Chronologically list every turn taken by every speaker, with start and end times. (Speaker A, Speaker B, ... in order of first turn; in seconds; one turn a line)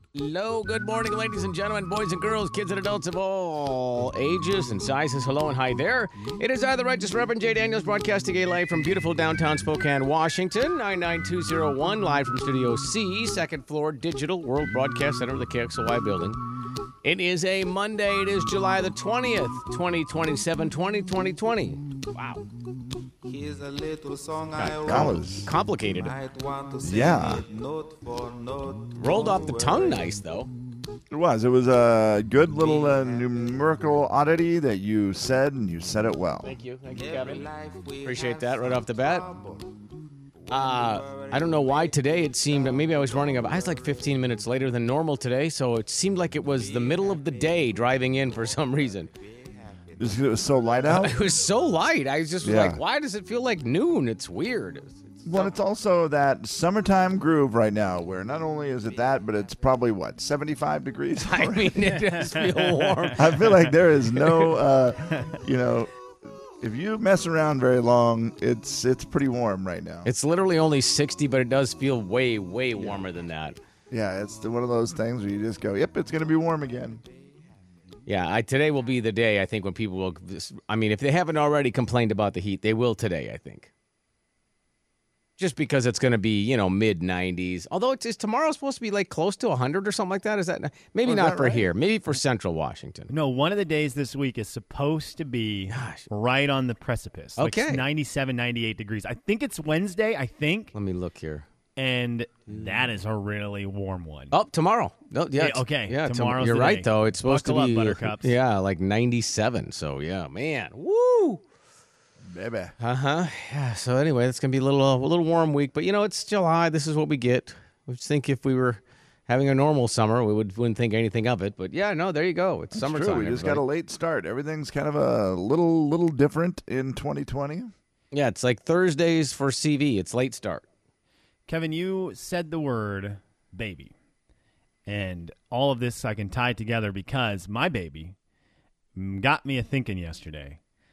Speaker A: 0.1-16.4
Speaker A: 17.0-22.4
Speaker B: 23.2-25.2
Speaker A: 24.6-26.1
Speaker C: 24.8-25.5
Speaker B: 25.9-30.1
Speaker C: 26.8-27.4
Speaker A: 29.0-30.5
Speaker C: 31.1-36.5
Speaker B: 32.5-33.3
Speaker A: 36.4-37.5
Speaker B: 36.9-39.7
Speaker A: 38.0-39.2
Speaker B: 40.4-44.2
Speaker A: 40.5-49.1
Speaker B: 46.5-50.9
Speaker C: 50.0-51.2
Speaker A: 50.9-55.6
Speaker C: 52.4-52.8
Speaker C: 55.2-61.8
Speaker A: 61.2-63.6
Speaker D: 61.9-63.2
Speaker C: 63.2-65.9
Speaker C: 66.6-70.1
Speaker A: 70.0-73.5
Speaker C: 73.9-77.0
Speaker A: 78.0-83.7
Speaker A: 85.4-93.1
Speaker C: 91.0-91.7
Speaker D: 93.1-100.7
Speaker A: 95.7-96.0
Speaker A: 97.4-97.8
Speaker A: 100.7-101.4
Speaker D: 101.8-104.3
Speaker A: 104.3-111.4
Speaker D: 105.4-108.3
Speaker C: 112.2-112.7
Speaker A: 112.8-123.6
Speaker C: 122.7-127.7
Speaker A: 128.1-130.6
Speaker D: 131.5-133.9
Speaker D: 134.8-138.1
Speaker D: 138.9-140.6